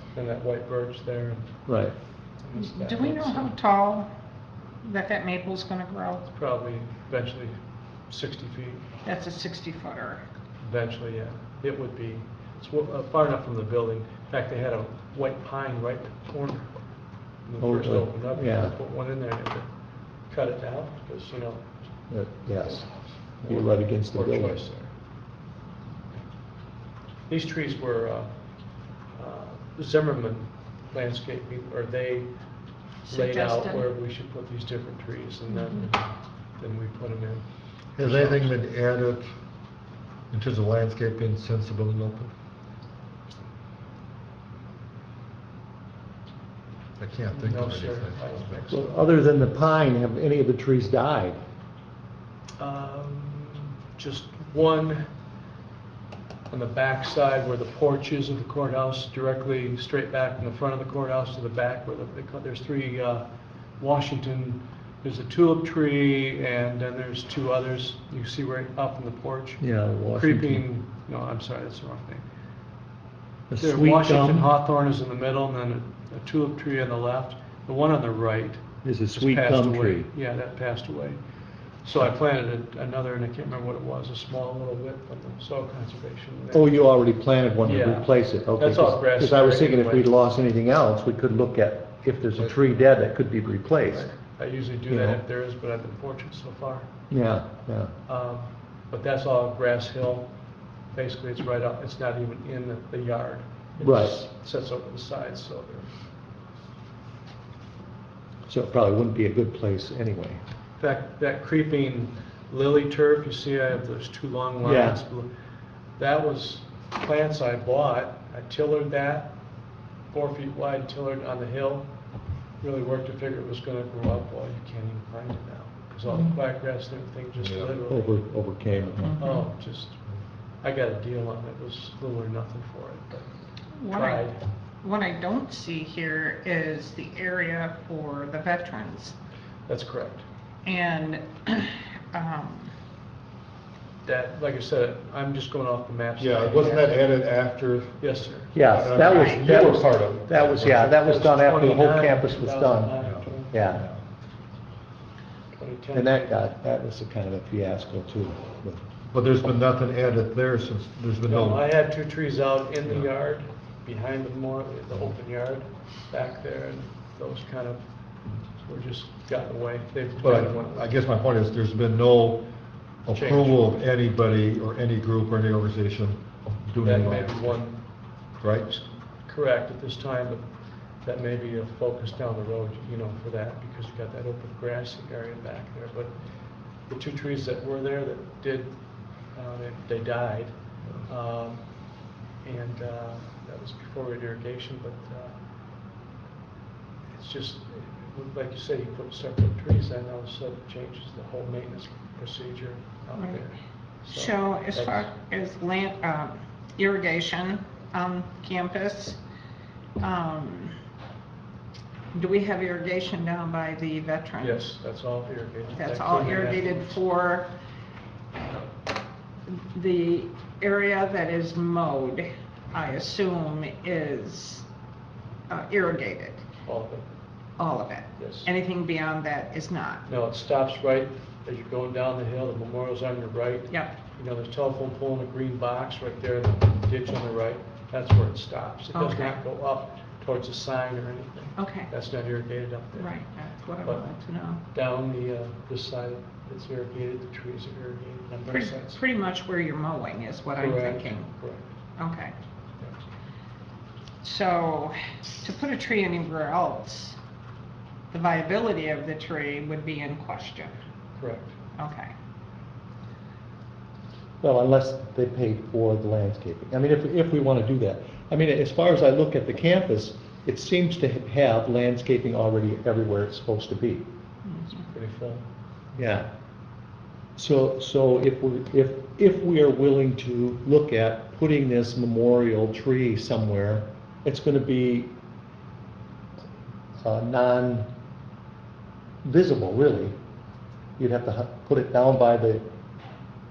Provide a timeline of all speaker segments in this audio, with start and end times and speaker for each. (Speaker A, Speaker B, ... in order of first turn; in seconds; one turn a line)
Speaker A: 0.1-1.8
Speaker B: 1.7-1.9
Speaker A: 2.4-3.5
Speaker C: 2.6-4.1
Speaker C: 4.8-6.3
Speaker A: 6.3-8.8
Speaker C: 9.0-10.2
Speaker A: 10.6-16.9
Speaker A: 17.4-21.9
Speaker B: 17.6-18.8
Speaker B: 22.1-24.6
Speaker A: 22.6-24.9
Speaker A: 27.3-28.5
Speaker A: 29.1-32.4
Speaker C: 33.1-33.9
Speaker A: 33.1-37.5
Speaker C: 35.5-35.8
Speaker D: 38.0-39.3
Speaker A: 38.0-38.6
Speaker D: 40.3-42.3
Speaker D: 47.0-48.5
Speaker A: 47.3-49.1
Speaker B: 48.7-51.4
Speaker A: 52.6-55.1
Speaker A: 56.5-63.2
Speaker A: 63.8-72.2
Speaker B: 69.6-70.7
Speaker B: 73.5-74.5
Speaker A: 73.6-81.2
Speaker B: 78.8-80.1
Speaker A: 81.8-86.7
Speaker B: 86.5-94.1
Speaker A: 87.6-90.1
Speaker A: 93.8-96.9
Speaker B: 94.9-95.2
Speaker B: 97.1-97.9
Speaker A: 98.1-100.3
Speaker A: 100.9-105.9
Speaker B: 103.8-104.2
Speaker B: 108.5-110.4
Speaker A: 110.8-115.3
Speaker B: 114.6-115.0
Speaker A: 116.0-119.4
Speaker A: 120.1-122.1
Speaker A: 122.6-130.0
Speaker C: 126.1-126.4
Speaker D: 127.4-127.8
Speaker B: 127.9-129.2
Speaker C: 129.0-129.5
Speaker A: 130.6-133.3
Speaker C: 133.8-139.2
Speaker A: 133.9-134.4
Speaker A: 139.7-140.2
Speaker C: 140.7-142.7
Speaker A: 144.0-147.1
Speaker D: 146.2-150.8
Speaker A: 148.0-148.6
Speaker B: 148.5-152.9
Speaker C: 149.0-149.5
Speaker A: 149.4-149.8
Speaker A: 150.3-153.8
Speaker D: 153.0-154.0
Speaker B: 153.5-153.8
Speaker A: 155.6-156.4
Speaker B: 155.9-158.8
Speaker D: 159.1-161.7
Speaker A: 161.3-170.9
Speaker D: 170.2-172.5
Speaker D: 173.0-177.7
Speaker A: 173.1-173.8
Speaker A: 176.8-186.2
Speaker D: 178.4-178.7
Speaker A: 186.8-195.4
Speaker A: 197.1-205.1
Speaker C: 203.2-203.4
Speaker C: 204.1-209.2
Speaker C: 210.0-210.7
Speaker C: 212.1-214.6
Speaker A: 214.4-217.0
Speaker C: 215.8-217.5
Speaker C: 219.5-224.7
Speaker C: 225.5-226.4
Speaker A: 226.7-227.1
Speaker C: 227.6-230.0
Speaker A: 228.2-228.5
Speaker A: 230.1-243.2
Speaker C: 238.9-239.4
Speaker C: 241.6-241.9
Speaker C: 243.0-244.6
Speaker A: 244.7-249.0
Speaker C: 248.5-251.3
Speaker A: 250.6-251.7
Speaker C: 252.0-252.3
Speaker C: 254.2-257.2
Speaker C: 258.1-260.7
Speaker A: 261.1-261.6
Speaker C: 261.8-262.1
Speaker B: 264.4-274.1
Speaker C: 274.5-274.8
Speaker A: 274.8-275.4
Speaker B: 276.0-276.3
Speaker B: 277.4-285.1
Speaker B: 287.0-287.9
Speaker B: 289.2-290.1
Speaker B: 291.0-292.7